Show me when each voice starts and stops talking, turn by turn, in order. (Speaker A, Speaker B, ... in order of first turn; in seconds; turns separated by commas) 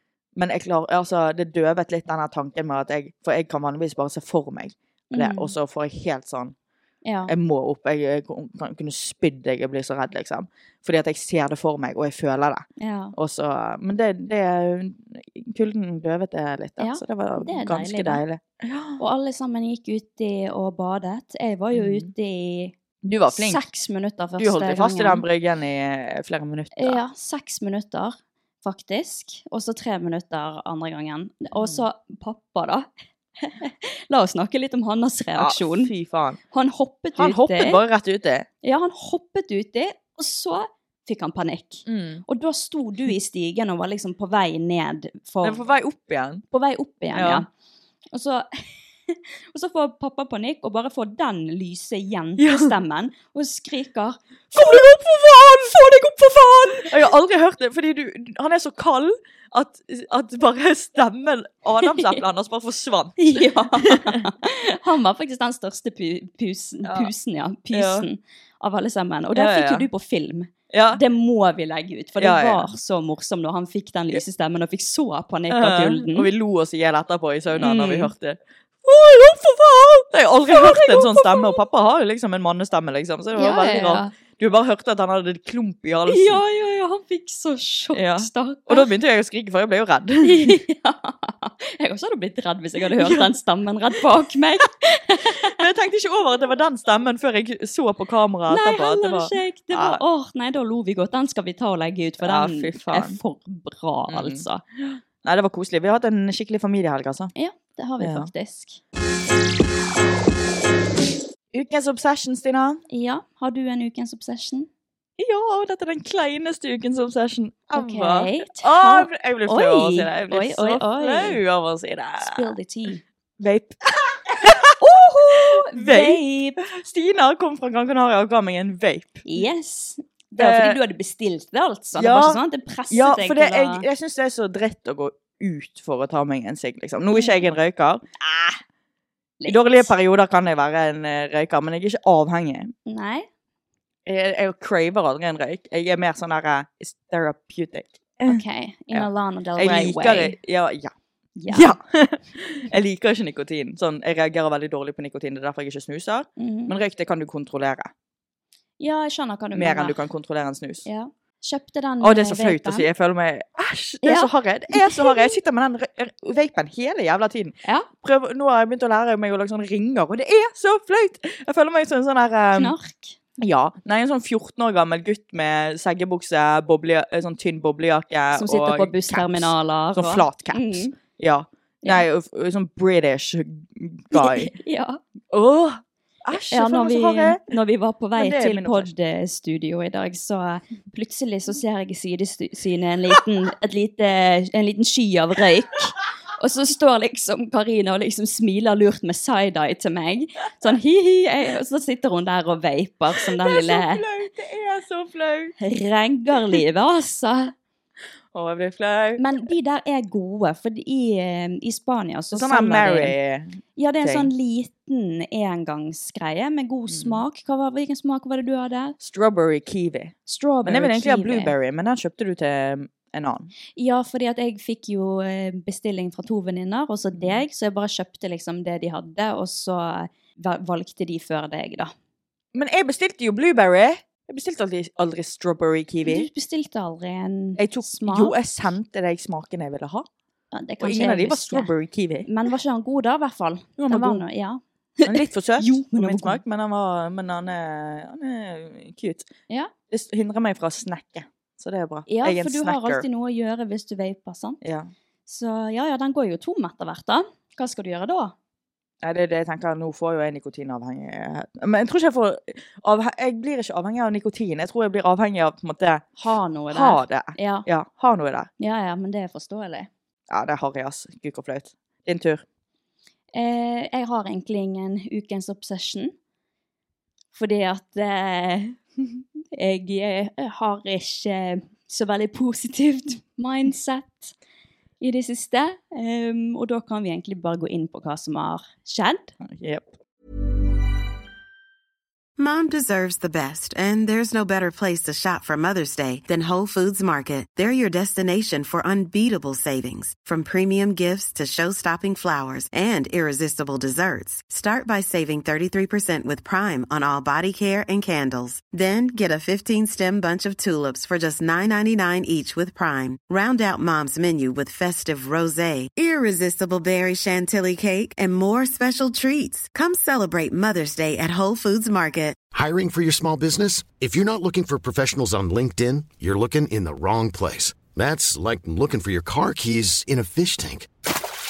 Speaker A: 0.4-6.5, Speaker B: 5.1-5.5, Speaker B: 7.0-7.3, Speaker A: 7.3-19.0, Speaker B: 12.8-13.1, Speaker B: 16.8-18.2, Speaker B: 19.0-22.7, Speaker A: 21.7-22.1, Speaker A: 23.0-23.6, Speaker B: 23.3-25.2, Speaker A: 24.4-27.0, Speaker B: 26.8-32.9, Speaker B: 33.4-35.9, Speaker A: 35.4-36.4, Speaker B: 36.5-37.8, Speaker A: 37.2-38.5, Speaker B: 38.6-45.6, Speaker A: 41.9-42.2, Speaker A: 45.4-46.4, Speaker B: 46.5-47.5, Speaker A: 47.1-47.4, Speaker B: 48.1-55.0, Speaker A: 52.4-52.7, Speaker A: 54.5-55.9, Speaker B: 55.7-57.1, Speaker A: 56.8-64.2, Speaker B: 61.8-62.2, Speaker B: 63.2-76.3, Speaker A: 66.8-67.1, Speaker A: 67.7-68.1, Speaker A: 69.3-69.9, Speaker A: 70.7-71.0, Speaker A: 72.2-72.7, Speaker A: 75.5-86.4, Speaker B: 77.6-78.1, Speaker B: 80.5-81.6, Speaker B: 83.3-84.1, Speaker B: 86.1-88.9, Speaker A: 87.9-90.6, Speaker B: 90.2-95.6, Speaker A: 93.0-93.3, Speaker A: 95.4-100.0, Speaker B: 98.5-104.6, Speaker A: 102.2-103.2, Speaker A: 104.1-107.3, Speaker B: 107.4-108.8, Speaker A: 108.0-108.3, Speaker A: 111.5-112.8, Speaker B: 112.9-114.7, Speaker A: 115.2-122.5, Speaker B: 117.7-121.4, Speaker B: 122.2-123.0, Speaker A: 123.4-124.8, Speaker B: 124.8-126.6, Speaker A: 125.4-129.2, Speaker B: 129.3-133.9, Speaker A: 130.4-130.8, Speaker A: 131.9-138.0, Speaker B: 137.1-137.5, Speaker B: 138.2-138.6, Speaker B: 139.4-139.9, Speaker A: 139.5-142.7, Speaker B: 142.9-143.3, Speaker A: 144.1-148.4, Speaker B: 148.3-150.3, Speaker A: 148.9-150.9, Speaker B: 151.4-151.8, Speaker A: 151.5-157.9, Speaker B: 156.4-156.7, Speaker B: 158.8-160.0, Speaker A: 159.6-160.8, Speaker B: 160.8-162.9, Speaker A: 162.0-172.7, Speaker B: 164.0-165.4, Speaker B: 167.6-167.9, Speaker B: 172.6-173.2, Speaker A: 173.4-184.5, Speaker B: 178.3-180.9, Speaker B: 184.1-185.0, Speaker A: 185.3-187.5, Speaker B: 186.5-204.0, Speaker A: 188.2-188.9, Speaker A: 203.4-205.6, Speaker B: 205.6-207.5, Speaker A: 208.3-209.2, Speaker B: 209.2-213.1, Speaker A: 212.3-214.3, Speaker B: 213.8-218.9, Speaker A: 216.9-217.2, Speaker A: 219.0-220.1, Speaker B: 220.3-221.5, Speaker A: 220.6-223.5, Speaker B: 223.8-231.9, Speaker A: 227.2-227.4, Speaker A: 232.5-236.3, Speaker B: 236.0-238.3, Speaker A: 237.6-240.1, Speaker B: 240.5-241.7, Speaker A: 240.8-242.3, Speaker B: 242.2-246.4, Speaker A: 243.8-244.2, Speaker A: 245.1-249.3, Speaker A: 249.9-253.1, Speaker B: 252.1-254.6, Speaker A: 254.6-254.9, Speaker B: 255.3-258.4, Speaker A: 259.0-266.1, Speaker B: 266.2-267.6, Speaker A: 266.7-268.5, Speaker B: 268.6-269.9, Speaker A: 270.3-272.4, Speaker B: 273.3-276.1, Speaker B: 277.3-278.8, Speaker B: 279.5-284.3, Speaker B: 285.0-289.3, Speaker A: 289.4-289.9, Speaker C: 292.4-322.4, Speaker D: 322.5-330.9